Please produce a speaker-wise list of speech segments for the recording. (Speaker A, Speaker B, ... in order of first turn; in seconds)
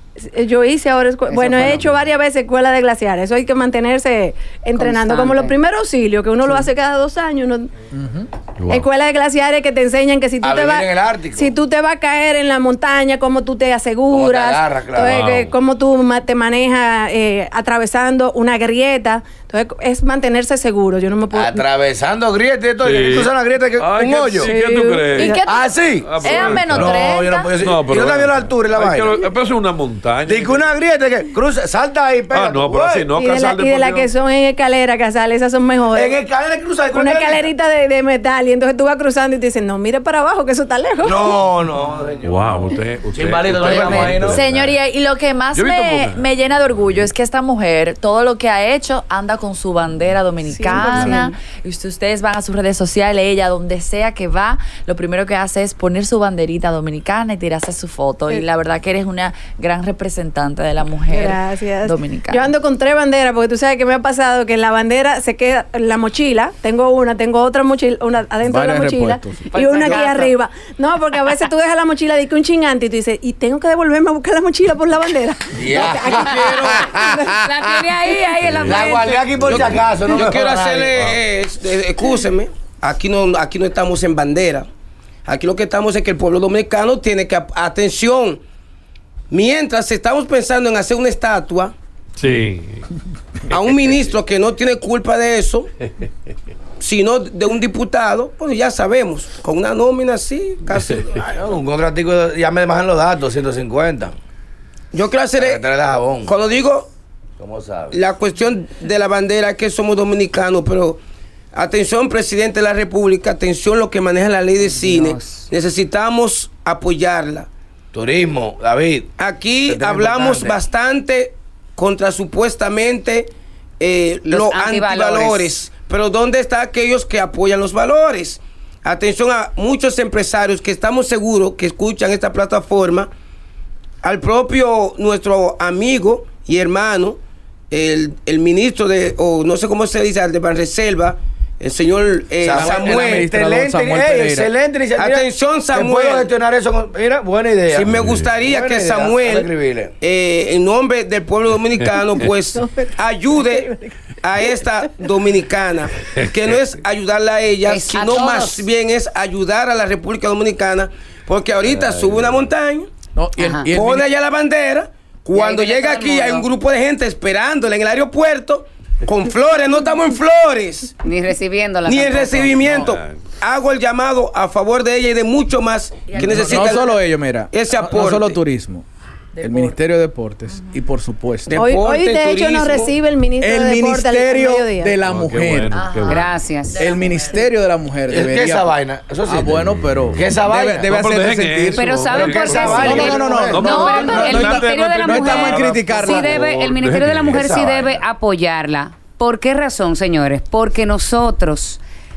Speaker A: 0.2-7.7, 8.7-21.6, 24.4-25.4, 33.1-36.2, 36.9-41.4, 50.5-51.3, 61.1-77.4, 152.6-154.0, 181.6-185.0
Speaker B: 1.3-1.9, 4.8-5.6, 69.6-70.2, 77.4-79.3, 114.6-115.5, 124.3-125.6, 157.7-158.7, 163.4-163.7, 165.3-166.5, 171.0-172.7, 186.1-186.7, 191.8-201.8
Speaker C: 7.9-8.3, 68.5-69.5, 142.5-144.5, 163.2-164.1, 176.2-178.9, 179.4-181.6, 183.4-185.8, 186.8-188.7, 189.2-196.4
Speaker D: 8.6-8.9, 15.1-15.5, 22.8-25.4, 26.0-30.6, 32.3-34.1, 42.2-44.8, 45.5-46.3, 50.9-51.2, 78.4-79.8, 92.2-92.9, 93.5-94.0, 100.7-101.0, 148.0-148.4, 156.0-156.6, 161.7-162.4, 172.6-173.2, 185.0-186.3, 189.5-189.9, 190.8-197.9
Speaker E: 10.4-11.5, 14.1-15.2, 21.3-24.5, 25.4-29.2, 30.3-33.1, 35.9-37.5, 41.0-44.4, 75.5-77.9, 78.6-81.0, 101.2-104.1, 105.4-106.4, 107.4-108.0, 117.9-119.1, 119.7-120.6, 142.4-149.9, 188.1-189.5, 190.1-190.9, 192.1-193.7, 197.3-197.9
Speaker F: 25.1-27.5, 43.8-62.5, 69.5-70.3, 176.1-176.9, 179.3-179.8, 180.5-180.8, 185.7-187.5, 193.6-194.5
Speaker G: 75.7-76.9, 79.5-84.7, 85.3-88.4, 89.3-91.8, 93.5-95.7, 96.8-101.2, 104.9-105.7, 106.2-106.9, 107.9-111.0, 111.5-117.5, 119.2-133.1, 134.0-137.2, 137.7-143.3, 144.9-146.3, 147.7-162.9, 163.7-171.0, 171.9-178.4, 181.5-182.9